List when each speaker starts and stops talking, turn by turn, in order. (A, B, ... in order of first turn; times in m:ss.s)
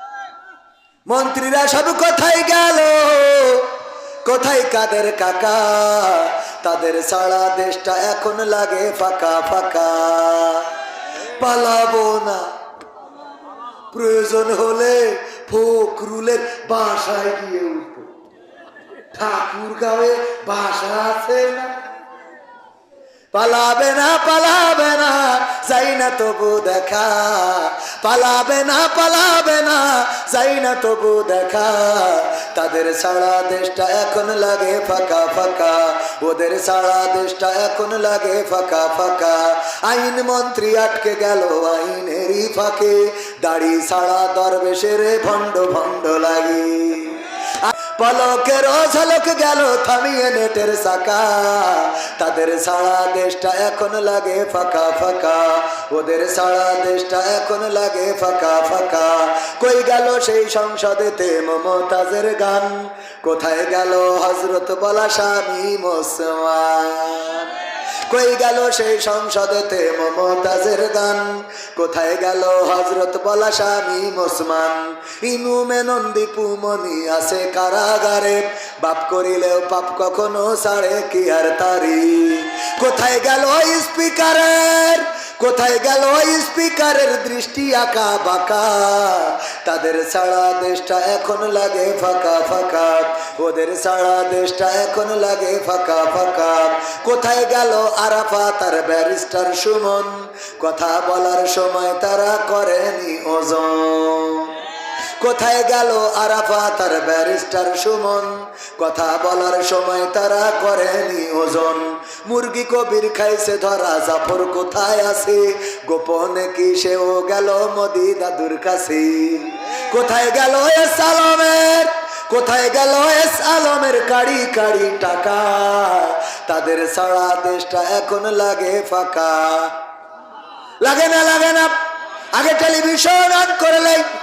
0:01.1-0:03.7 A
0:04.2-0:10.7 A
0:11.4-0:12.4 A
0:13.9-0:18.1 A
0:19.1-0:21.7 A
0:23.3-1:07.5 A
1:08.1-1:44.5 A
1:45.2-2:09.8 A
2:10.8-2:11.7 A
2:12.3-2:14.1 A